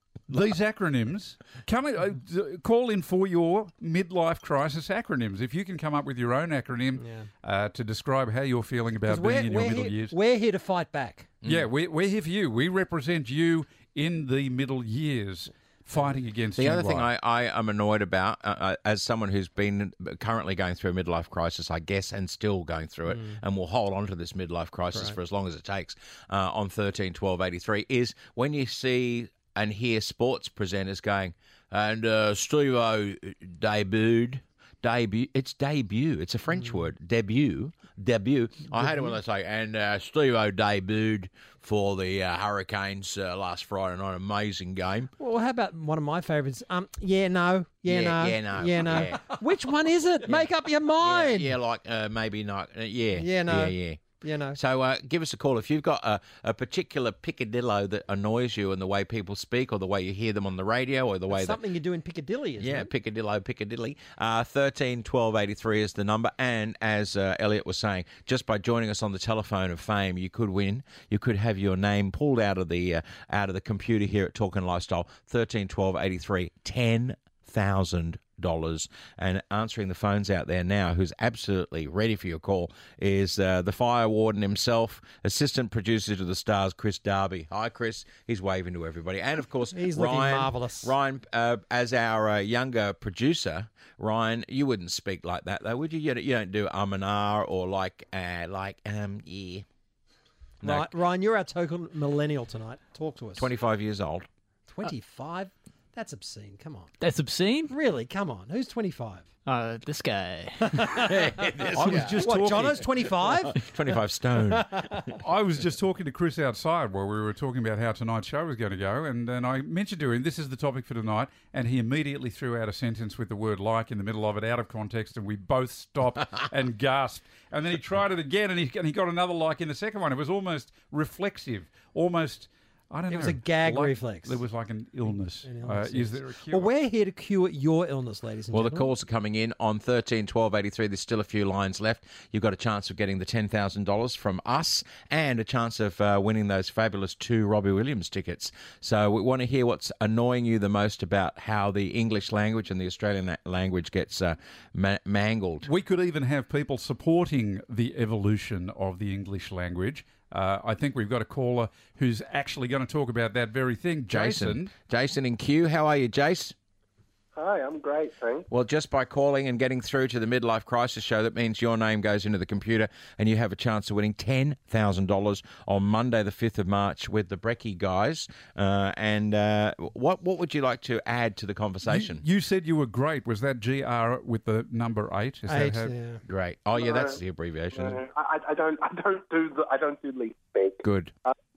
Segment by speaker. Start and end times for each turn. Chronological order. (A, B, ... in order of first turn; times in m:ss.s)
0:00.3-0:10.2 A
0:07.0-0:07.3 B
0:09.0-0:11.4 B
0:11.4-0:17.1 A
0:16.6-0:45.1 C
0:23.1-0:23.4 B
0:38.8-0:39.1 B
0:45.2-0:51.5 B
0:47.9-0:49.3 C
0:50.2-0:50.5 C
0:51.0-1:01.6 C
0:53.2-0:54.6 B
1:01.3-1:02.9 B
1:02.6-1:39.7 C
1:29.7-1:30.9 B
1:40.6-1:41.0 C
1:40.6-1:43.5 B
1:43.4-1:44.3 C
1:44.7-1:46.9 B
1:47.0-1:47.8 D
1:47.7-1:49.3 B
1:49.5-1:51.0 D
1:50.6-1:51.2 B
1:51.0-1:54.9 C
1:51.8-1:52.9 A
1:51.8-1:53.6 B
1:54.4-1:55.1 B
1:55.2-2:16.7 A
2:13.1-2:14.4 B
2:15.4-2:18.9 B
2:18.5-2:35.7 C
2:35.6-2:44.7 A
2:44.1-2:46.6 C
2:47.4-2:48.5 E
2:48.5-3:02.2 C
3:01.9-3:05.9 A
3:05.5-3:06.2 B
3:06.3-3:08.0 C
3:06.8-3:07.2 E
3:07.7-3:10.8 E
3:10.8-3:11.1 C